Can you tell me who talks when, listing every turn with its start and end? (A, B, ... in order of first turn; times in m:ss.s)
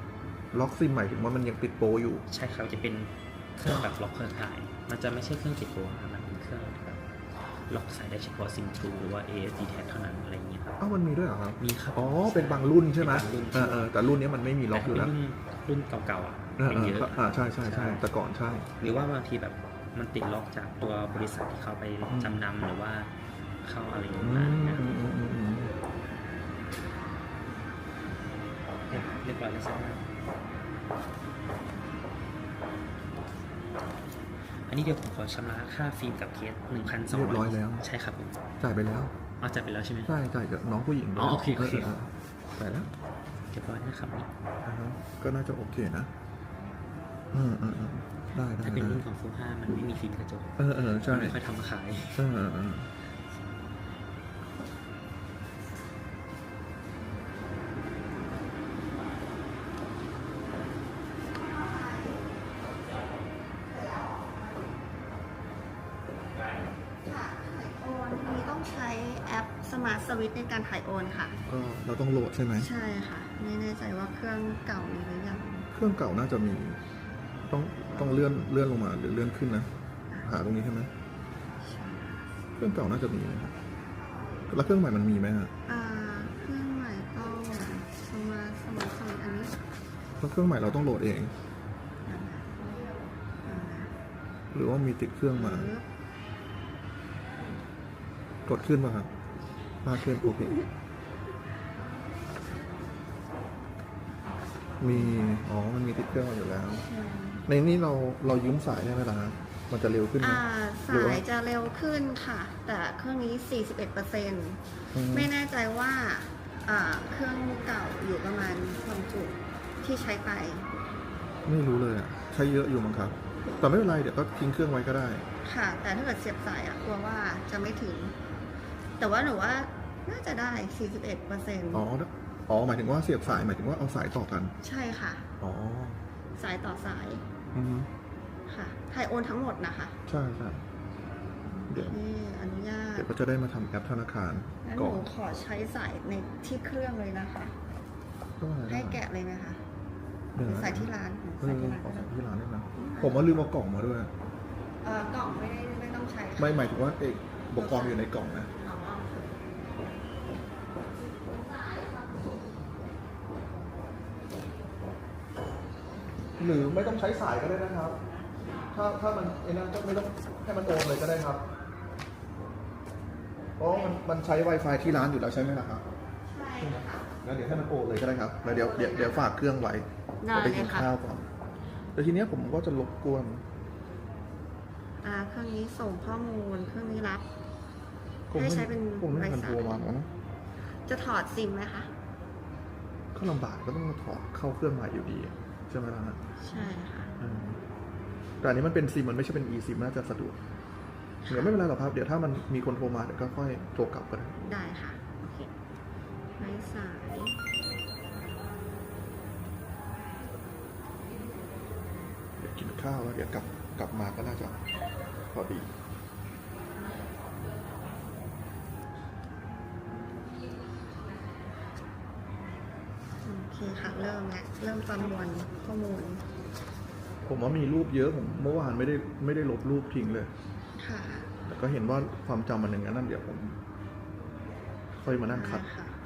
0:00.5-0:02.2 A
0:02.3-0:10.8 B
0:10.8-0:15.1 A
0:11.6-0:13.9 B
0:14.7-0:18.0 B
0:16.6-0:18.8 A
0:18.8-0:23.1 B
0:22.1-0:22.4 A
0:23.6-0:24.9 B
0:24.2-0:25.8 A
0:28.9-0:30.1 B
0:34.6-0:38.4 B
0:37.1-0:37.8 A
0:38.6-0:39.1 A
0:39.4-0:40.1 B
0:40.1-0:42.9 A
0:41.2-0:41.9 B
0:43.5-0:44.3 B
0:44.6-0:46.1 A
0:47.3-0:49.0 A
0:48.6-0:52.3 B
0:50.6-0:51.4 A
0:52.2-0:52.9 A
1:01.2-1:02.3 C
1:03.7-1:04.5 C
1:07.0-1:11.4 C
1:11.5-1:12.7 A
1:12.6-1:15.7 C
1:15.7-1:16.8 A
1:17.4-1:19.7 A
1:17.9-1:18.3 C
1:20.2-1:20.9 A
1:21.6-1:22.3 C
1:22.6-1:23.5 A
1:24.5-1:25.5 A
1:25.7-1:29.6 C
1:30.2-1:31.3 A
1:32.1-1:33.9 C
1:34.5-1:35.7 A
1:35.3-1:35.8 C
1:38.5-1:39.1 A
1:39.8-1:40.6 A
1:44.8-1:46.8 A
1:44.9-1:45.3 C
1:46.8-1:47.5 C
1:47.5-1:51.2 A
1:50.2-2:00.7 C
1:54.9-1:55.3 A
2:01.4-2:05.2 A
2:05.4-2:08.2 C
2:09.0-2:11.9 C
2:11.7-2:14.5 A
2:14.6-2:15.3 C
2:15.4-2:16.0 A
2:16.4-2:17.2 C
2:17.5-2:17.9 A
2:18.5-2:20.0 C
2:20.1-2:20.6 A
2:21.5-2:23.1 C
2:21.7-2:22.0 A
2:23.0-2:25.1 A
2:24.6-2:27.6 C
2:28.4-2:29.0 A
2:28.7-2:29.6 C
2:30.4-2:34.1 A
2:30.4-2:32.1 C
2:32.7-2:33.5 C
2:34.8-2:36.7 C
2:36.4-2:38.5 A
2:37.6-2:39.4 C
2:46.4-2:48.0 A
2:48.7-2:51.4 A
2:53.6-2:55.8 A
2:53.7-2:54.0 C
2:56.2-2:57.1 C
2:56.6-3:01.3 A
2:58.5-2:59.3 C
3:00.2-3:00.9 C
3:02.0-3:03.4 A
3:05.0-3:07.2 C
3:08.3-3:10.1 A
3:08.3-3:09.9 C
3:10.7-3:11.9 C
3:13.1-3:16.2 A
3:16.4-3:17.2 C
3:17.2-3:17.6 A
3:18.4-3:20.4 A
3:21.2-3:21.6 C
3:21.3-3:24.4 A
3:24.4-3:25.5 C
3:26.4-3:27.4 C
3:32.4-3:34.6 A
3:35.3-3:35.7 A
3:43.2-3:46.2 C
3:47.3-3:50.3 A
3:50.8-3:51.3 C
3:51.5-3:53.6 A
3:55.0-3:55.7 A
3:55.3-3:56.0 C